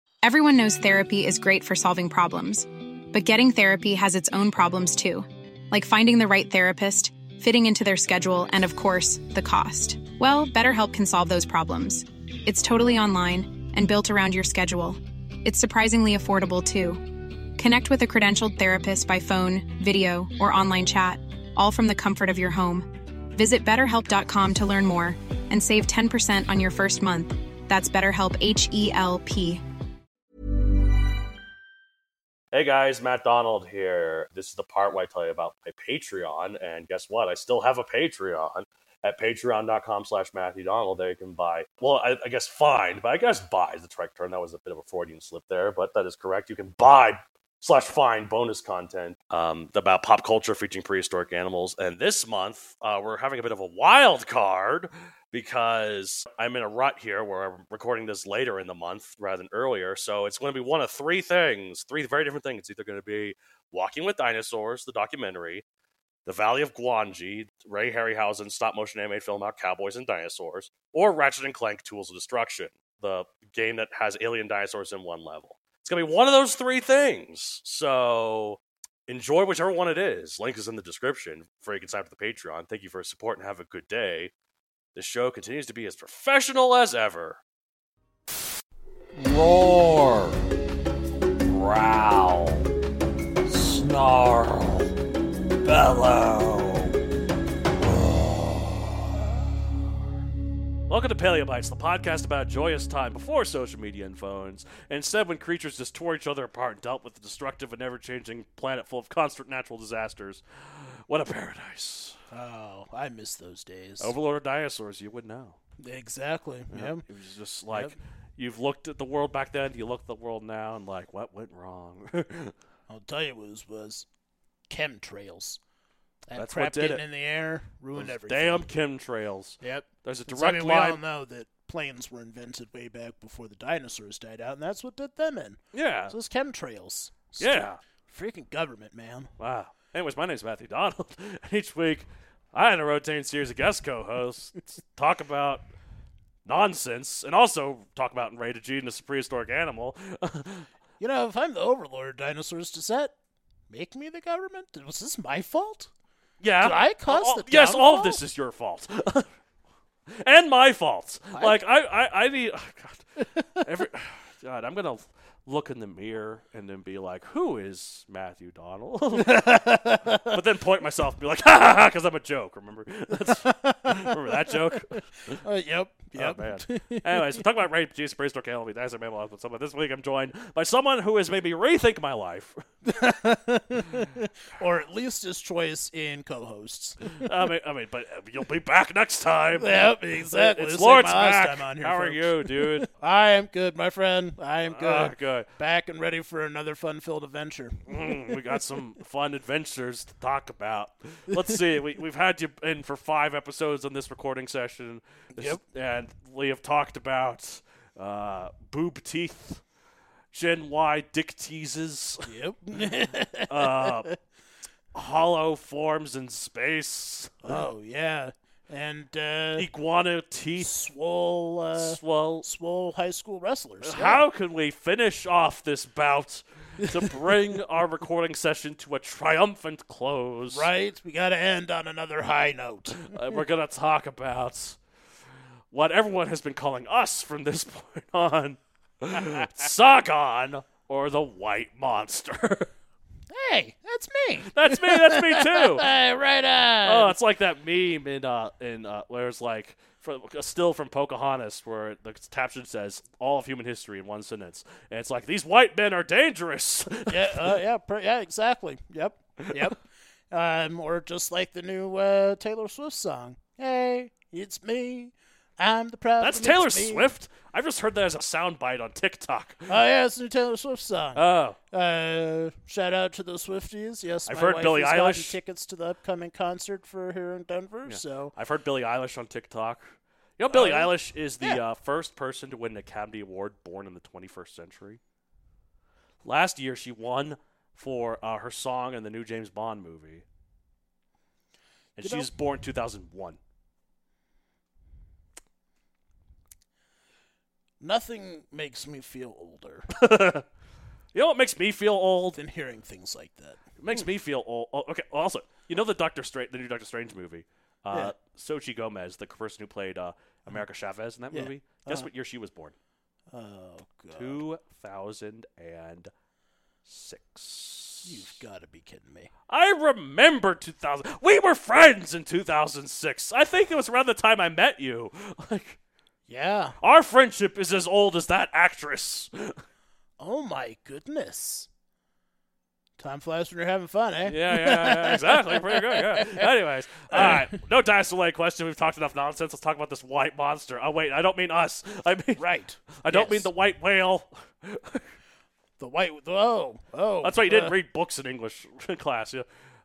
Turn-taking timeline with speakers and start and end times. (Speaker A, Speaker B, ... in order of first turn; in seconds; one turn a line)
Speaker A: 0.2-29.6
Speaker B: 32.5-65.6
Speaker B: 66.3-84.3
Speaker B: 85.0-87.4
Speaker B: 89.2-90.5
Speaker B: 91.4-92.7
Speaker B: 93.5-94.9
Speaker B: 95.6-97.0
Speaker B: 100.9-112.2
Speaker C: 112.3-114.2
Speaker B: 114.0-115.6
Speaker C: 115.8-117.0
Speaker B: 116.7-122.5
Speaker C: 122.9-124.1
Speaker C: 124.7-125.6
Speaker C: 126.3-128.7
Speaker B: 126.3-127.0
Speaker B: 128.0-131.0
Speaker C: 129.6-139.3
Speaker B: 135.7-136.2
Speaker B: 137.4-137.8
Speaker B: 139.4-145.6
Speaker B: 146.4-150.7
Speaker C: 151.0-153.1
Speaker C: 153.7-155.9
Speaker B: 156.4-159.3
Speaker C: 156.6-158.2
Speaker B: 160.2-175.4
Speaker C: 169.2-170.4
Speaker C: 173.2-174.8
Speaker C: 175.4-177.4
Speaker B: 176.2-182.6
Speaker C: 182.8-187.0
Speaker B: 187.0-192.9
Speaker C: 189.5-198.4
Speaker B: 194.7-195.5
Speaker B: 197.9-209.6
Speaker C: 205.3-205.6
Speaker B: 210.3-212.3
Speaker C: 212.2-214.1
Speaker B: 213.5-214.1
Speaker B: 214.9-217.6
Speaker C: 217.4-219.7
Speaker B: 219.6-220.7
Speaker C: 220.6-224.2
Speaker B: 221.8-222.5
Speaker B: 223.8-230.7
Speaker C: 226.8-227.1
Speaker C: 230.5-233.2
Speaker B: 233.0-234.8
Speaker B: 235.7-242.7
Speaker C: 243.3-247.2
Speaker B: 244.5-245.9
Speaker B: 246.8-257.6
Speaker C: 257.1-259.8
Speaker B: 259.4-259.7
Speaker C: 260.3-267.1
Speaker B: 266.2-269.8
Speaker C: 269.7-278.3
Speaker B: 271.1-271.6
Speaker B: 274.3-275.4
Speaker B: 277.9-285.0
Speaker C: 280.5-281.6
Speaker B: 286.2-290.2
Speaker B: 292.0-293.4
Speaker C: 292.0-292.3
Speaker C: 297.8-299.9
Speaker B: 299.9-300.4
Speaker B: 301.1-302.4
Speaker C: 302.3-304.1
Speaker B: 303.8-312.7
Speaker C: 311.3-312.1
Speaker C: 313.3-314.4
Speaker B: 314.2-316.1
Speaker B: 316.9-318.2
Speaker C: 318.0-319.3
Speaker B: 319.5-325.8
Speaker C: 326.3-326.8
Speaker B: 326.8-329.6
Speaker C: 330.2-331.7
Speaker C: 333.0-336.5
Speaker B: 334.2-342.4
Speaker C: 337.1-337.5
Speaker C: 342.4-343.5
Speaker B: 343.0-345.1
Speaker C: 345.8-347.8
Speaker B: 347.2-349.4